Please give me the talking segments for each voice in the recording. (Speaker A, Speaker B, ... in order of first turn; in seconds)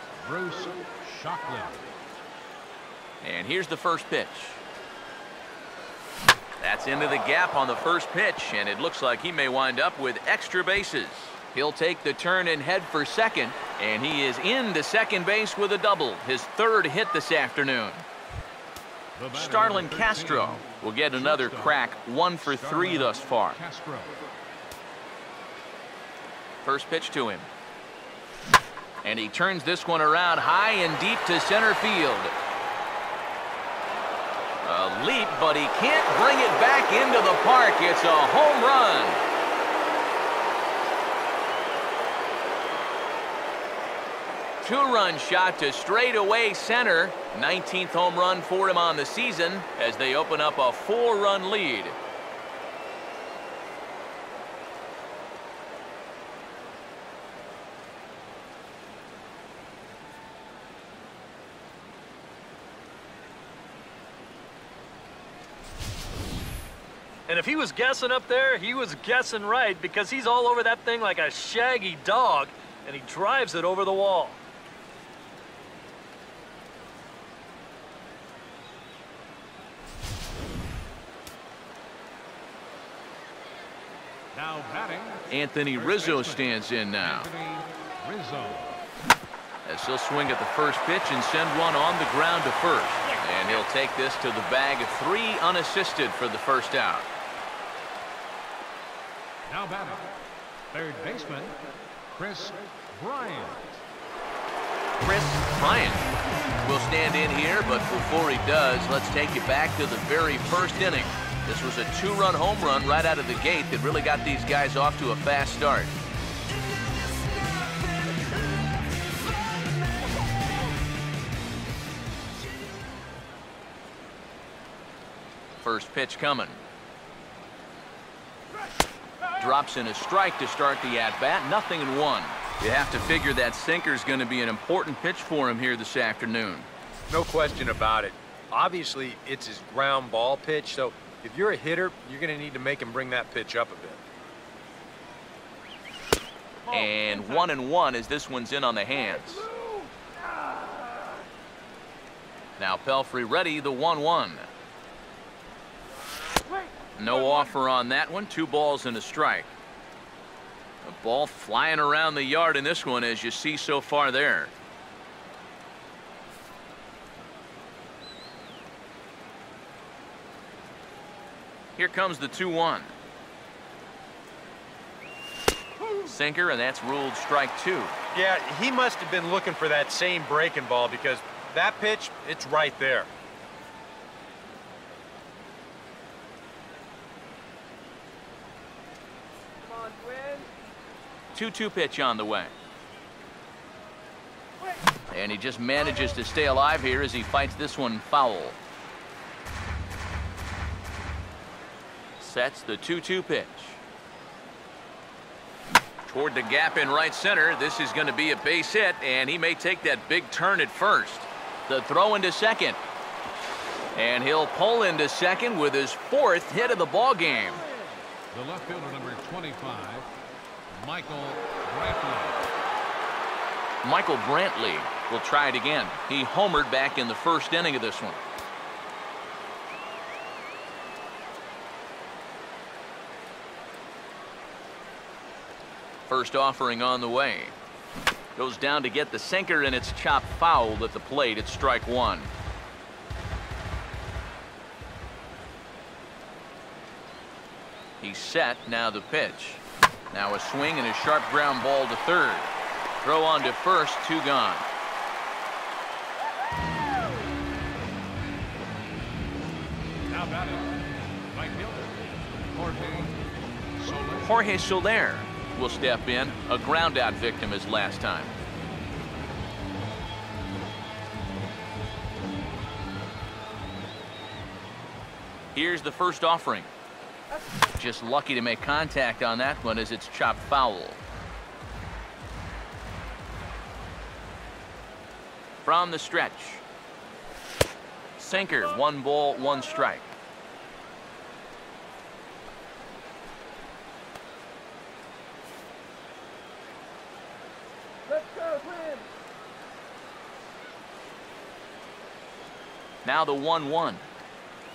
Speaker A: 0.2-1.8, 19.1-21.8, 22.4-24.2, 84.3-88.8, 99.5-100.1, 100.7-101.6, 102.2-103.8, 146.8-147.4, 218.3-220.1, 220.7-222.4, 260.1-260.8, 261.3-261.9, 262.5-263.2, 263.8-264.3
Speaker B: 3.2-4.6, 6.6-18.0, 19.3-23.6, 26.6-27.5, 29.0-32.3, 34.6-39.2, 44.6-52.0, 85.3-87.3, 89.6-97.1, 105.0-106.1, 106.6-115.9, 125.6-126.6, 129.4-136.7, 146.7-149.5, 152.6-154.5, 156.9-159.5, 160.8-164.5, 171.8-172.9, 176.0-177.9, 191.3-192.5, 195.1-198.6, 202.2-203.8, 206.0-212.8, 213.9-217.6, 223.8-228.2, 236.1-237.6, 238.3-242.3, 248.0-254.6, 264.2-268.3, 275.5-276.7, 277.7-281.0, 285.6-286.6, 288.2-290.1, 303.0-304.1
Speaker C: 67.3-74.4
Speaker D: 137.1-144.0, 178.1-183.1